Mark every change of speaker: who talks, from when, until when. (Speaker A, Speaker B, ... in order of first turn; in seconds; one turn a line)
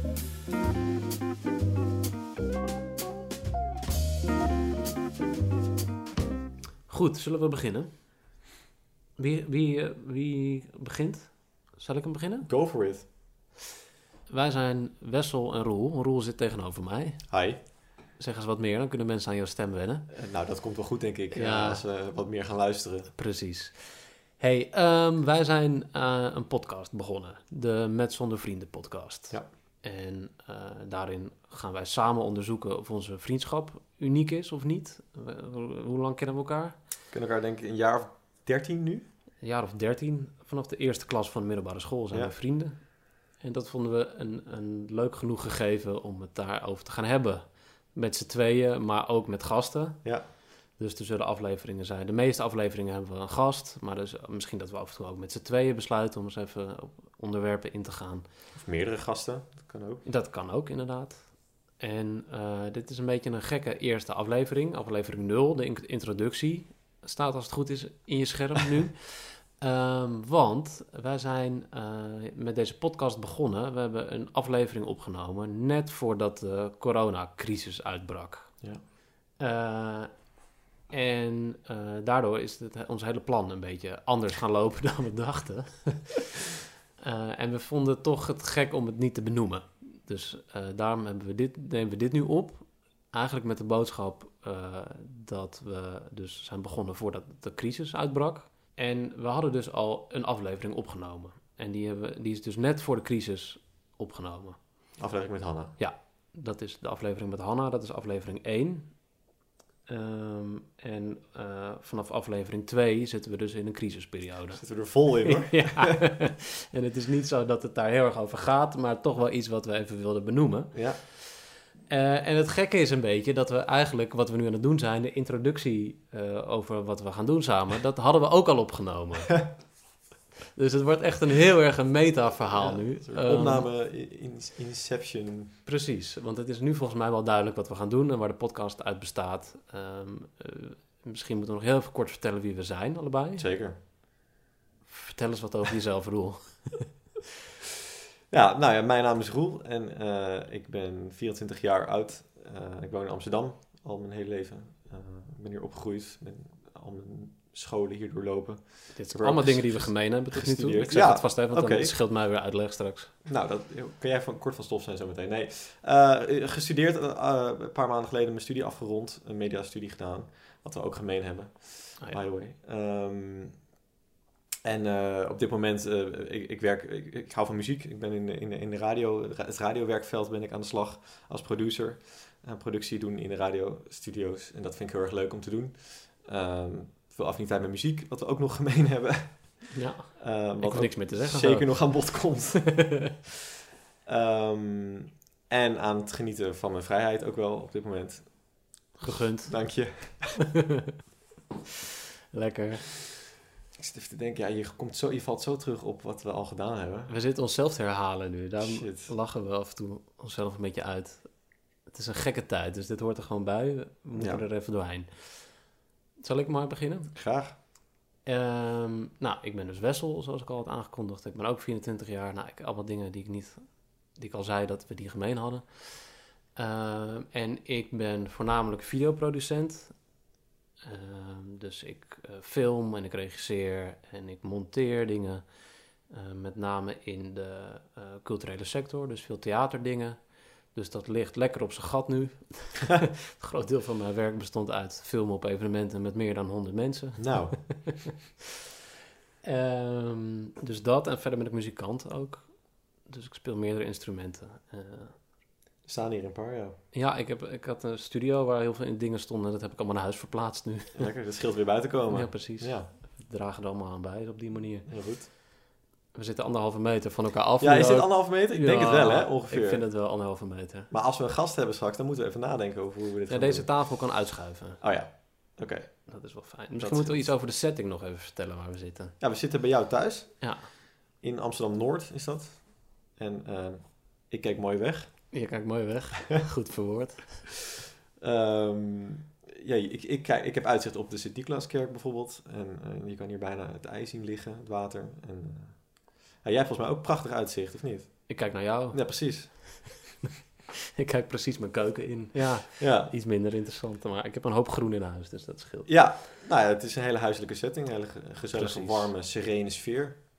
Speaker A: 6.9-7.9
Speaker A: 9.2-12.5
Speaker B: 12.4-13.1
Speaker A: 14.3-17.3
Speaker B: 17.3-17.6
Speaker A: 18.2-20.1
Speaker B: 20.1-23.1
Speaker A: 21.3-21.8
Speaker A: 23.2-36.8
Speaker B: 37.1-39.1
Speaker A: 39.4-42.8
Speaker A: 43.4-50.0
Speaker A: 50.8-58.3
Speaker B: 58.5-60.0
Speaker A: 60.0-61.2
Speaker A: 61.8-78.6
Speaker A: 79.4-80.1
Speaker A: 80.9-86.4
Speaker A: 87.0-104.6
Speaker B: 105.0-105.8
Speaker A: 105.8-109.0
Speaker A: 109.9-129.5
Speaker B: 114.5-115.9
Speaker B: 120.7-121.0
Speaker A: 130.6-133.7
Speaker B: 132.5-135.6
Speaker A: 135.7-143.5
Speaker B: 143.4-143.8
Speaker A: 144.9-147.0
Speaker B: 148.3-161.9
Speaker A: 158.9-163.2
Speaker B: 163.3-173.5
Speaker B: 174.7-189.7
Speaker A: 189.7-193.1
Speaker B: 190.2-192.7
Speaker B: 194.1-198.3
Speaker A: 199.0-199.6
Speaker B: 199.5-200.4
Speaker A: 200.4-200.9
Speaker A: 202.3-202.9
Speaker B: 203.8-207.1
Speaker A: 207.1-211.3
Speaker B: 208.6-209.1
Speaker A: 211.9-215.1
Speaker B: 214.2-214.4
Speaker A: 216.2-217.1
Speaker B: 217.2-217.6
Speaker A: 218.3-223.6
Speaker A: 224.2-230.0
Speaker A: 230.8-235.5
Speaker A: 236.1-240.2
Speaker A: 240.7-248.1
Speaker B: 247.2-247.6
Speaker A: 249.4-252.5
Speaker A: 253.1-255.2
Speaker B: 255.9-256.8
Speaker A: 256.9-261.1
Speaker B: 260.9-262.9
Speaker A: 262.1-264.9
Speaker B: 264.9-265.3
Speaker A: 266.1-270.9
Speaker B: 267.6-269.8
Speaker B: 270.9-273.7
Speaker A: 273.3-274.8
Speaker B: 274.8-275.9
Speaker A: 276.1-279.1
Speaker B: 276.8-277.2
Speaker B: 279.2-280.4
Speaker A: 280.4-280.7
Speaker B: 281.2-285.1
Speaker A: 285.3-287.6
Speaker B: 288.2-299.8
Speaker A: 298.3-299.6
Speaker A: 300.9-306.0
Speaker B: 302.3-303.1
Speaker B: 305.9-310.2
Speaker A: 308.5-309.1